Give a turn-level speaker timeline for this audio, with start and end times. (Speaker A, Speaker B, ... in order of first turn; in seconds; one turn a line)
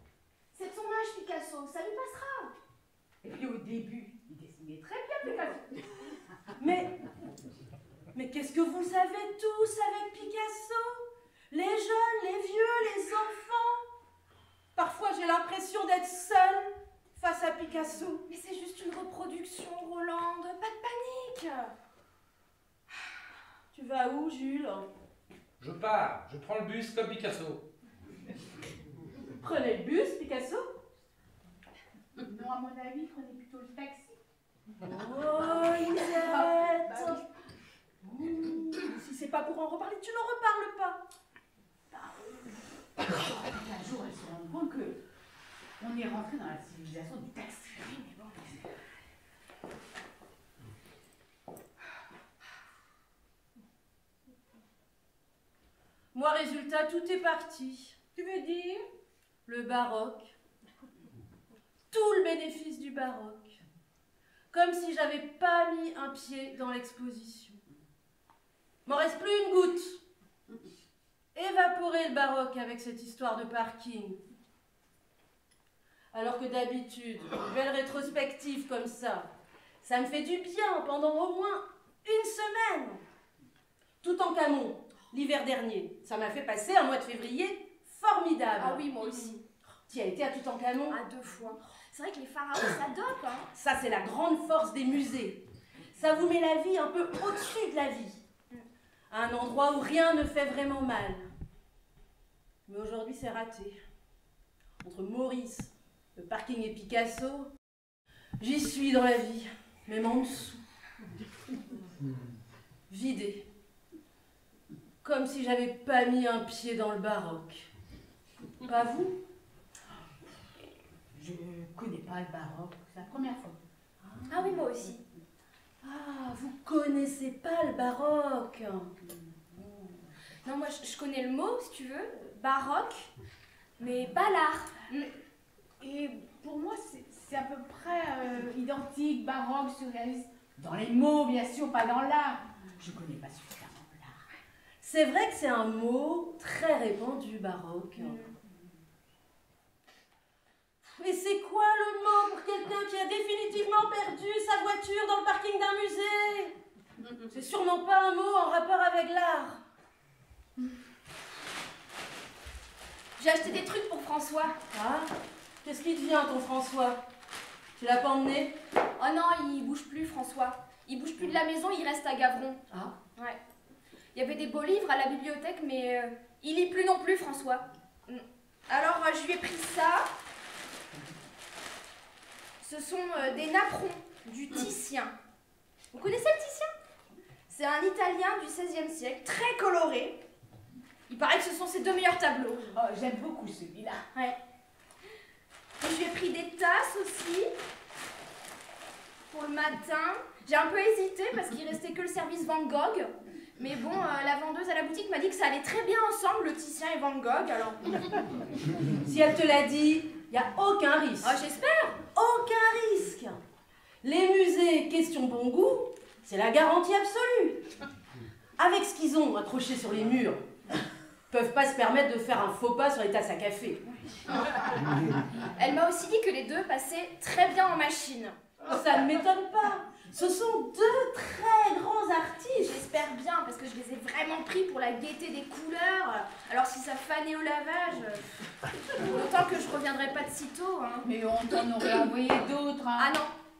Speaker A: 0.5-2.5
Speaker B: 3.2-5.7
Speaker C: 6.6-6.9
Speaker C: 8.1-13.8
Speaker C: 14.7-18.2
Speaker A: 18.3-21.7
Speaker C: 23.7-24.9
Speaker D: 25.6-27.7
Speaker C: 29.4-30.7
Speaker B: 32.2-34.2
Speaker C: 34.8-37.2
Speaker B: 35.6-37.2
Speaker C: 38.0-41.0
Speaker B: 41.9-42.3
Speaker B: 43.0-45.0
Speaker B: 45.8-48.6
Speaker C: 56.1-58.1
Speaker A: 58.1-58.6
Speaker C: 59.5-60.3
Speaker C: 61.9-63.6
Speaker C: 64.5-67.6
Speaker C: 68.8-70.0
Speaker C: 71.3-74.2
Speaker C: 76.1-79.3
Speaker C: 79.8-83.0
Speaker C: 84.0-88.8
Speaker A: 88.6-89.4
Speaker C: 89.9-91.0
Speaker A: 90.9-93.5
Speaker C: 93.5-95.4
Speaker C: 95.9-98.2
Speaker C: 99.1-101.3
Speaker C: 102.7-103.8
Speaker C: 104.8-107.5
Speaker C: 108.4-110.6
Speaker C: 112.9-113.4
Speaker C: 115.0-117.7
Speaker C: 118.6-119.2
Speaker B: 121.1-123.6
Speaker A: 124.3-125.0
Speaker C: 125.8-128.9
Speaker A: 130.4-133.1
Speaker A: 133.8-135.1
Speaker B: 135.8-144.2
Speaker C: 144.8-148.2
Speaker C: 151.0-156.5
Speaker C: 157.3-159.6
Speaker A: 163.2-164.6
Speaker C: 164.7-165.1
Speaker C: 165.6-167.0
Speaker C: 167.8-168.6
Speaker A: 169.0-172.6
Speaker A: 174.1-180.1
Speaker A: 182.6-185.1
Speaker A: 185.9-186.7
Speaker A: 187.5-190.2
Speaker A: 191.1-192.8
Speaker B: 192.7-194.0
Speaker A: 195.8-197.5
Speaker A: 199.3-207.9
Speaker C: 209.0-211.3
Speaker A: 211.2-212.0
Speaker C: 212.1-213.4
Speaker C: 214.0-217.6
Speaker C: 218.6-220.4
Speaker C: 221.3-223.8
Speaker A: 225.6-228.4
Speaker C: 228.6-232.8
Speaker A: 232.5-238.4
Speaker A: 238.9-241.1
Speaker B: 241.0-243.1
Speaker A: 243.0-243.3